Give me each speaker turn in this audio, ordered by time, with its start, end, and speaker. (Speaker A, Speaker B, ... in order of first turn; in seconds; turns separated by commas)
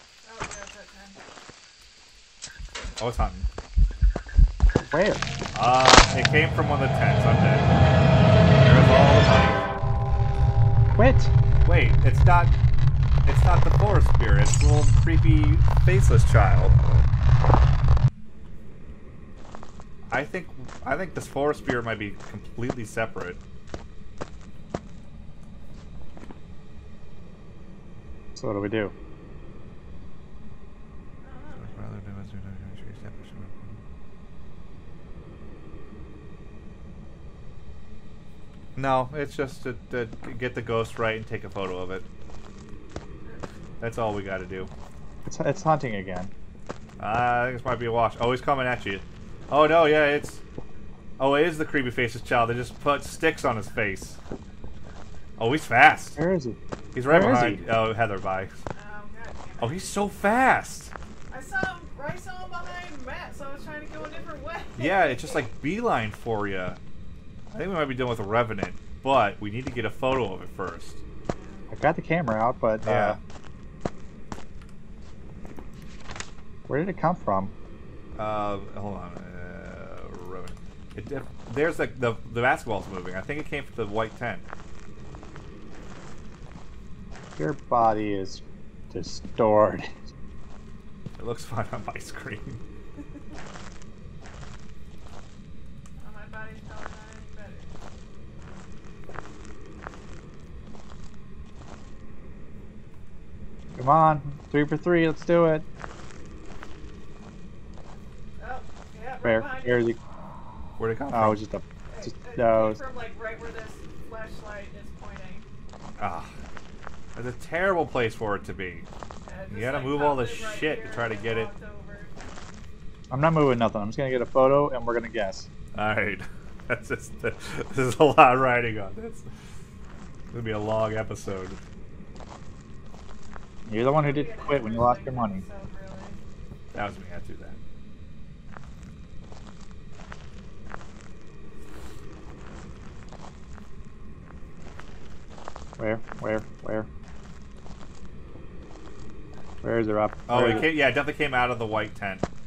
Speaker A: 0.2-1.2, Speaker B: 3.0-3.5, Speaker C: 4.7-5.2, Speaker B: 5.5-7.8, Speaker B: 8.5-9.6, Speaker C: 11.0-11.3, Speaker B: 11.7-12.6, Speaker B: 13.2-16.8, Speaker B: 20.1-23.4, Speaker C: 28.4-28.9, Speaker A: 31.2-31.9, Speaker B: 31.6-33.8, Speaker B: 38.8-42.1, Speaker B: 43.8-44.7, Speaker C: 45.2-46.3, Speaker B: 47.0-50.4, Speaker B: 51.2-54.2, Speaker B: 55.4-56.2, Speaker C: 56.2-57.6, Speaker B: 56.9-58.5, Speaker A: 58.7-59.9, Speaker B: 59.6-60.9, Speaker A: 61.3-65.5, Speaker B: 64.8-66.8, Speaker B: 67.5-71.0, Speaker A: 71.3-71.7, Speaker C: 71.7-73.2, Speaker B: 72.8-73.2, Speaker C: 76.7-77.5, Speaker B: 78.2-84.5, Speaker C: 87.4-89.9, Speaker B: 91.2-92.6, Speaker A: 96.0-97.7, Speaker C: 103.8-105.7, Speaker A: 108.4-109.9, Speaker C: 109.2-110.0, Speaker B: 110.8-111.4, Speaker C: 111.1-112.8, Speaker A: 111.9-115.5, Speaker B: 116.0-116.3, Speaker B: 117.2-118.9, Speaker A: 119.2-122.2, Speaker B: 119.5-121.5, Speaker C: 123.1-125.5, Speaker B: 125.7-129.3, Speaker B: 130.3-131.6, Speaker C: 133.7-135.4, Speaker A: 133.9-136.2, Speaker B: 136.7-137.6, Speaker C: 145.8-146.9, Speaker C: 149.6-150.7, Speaker B: 150.3-152.2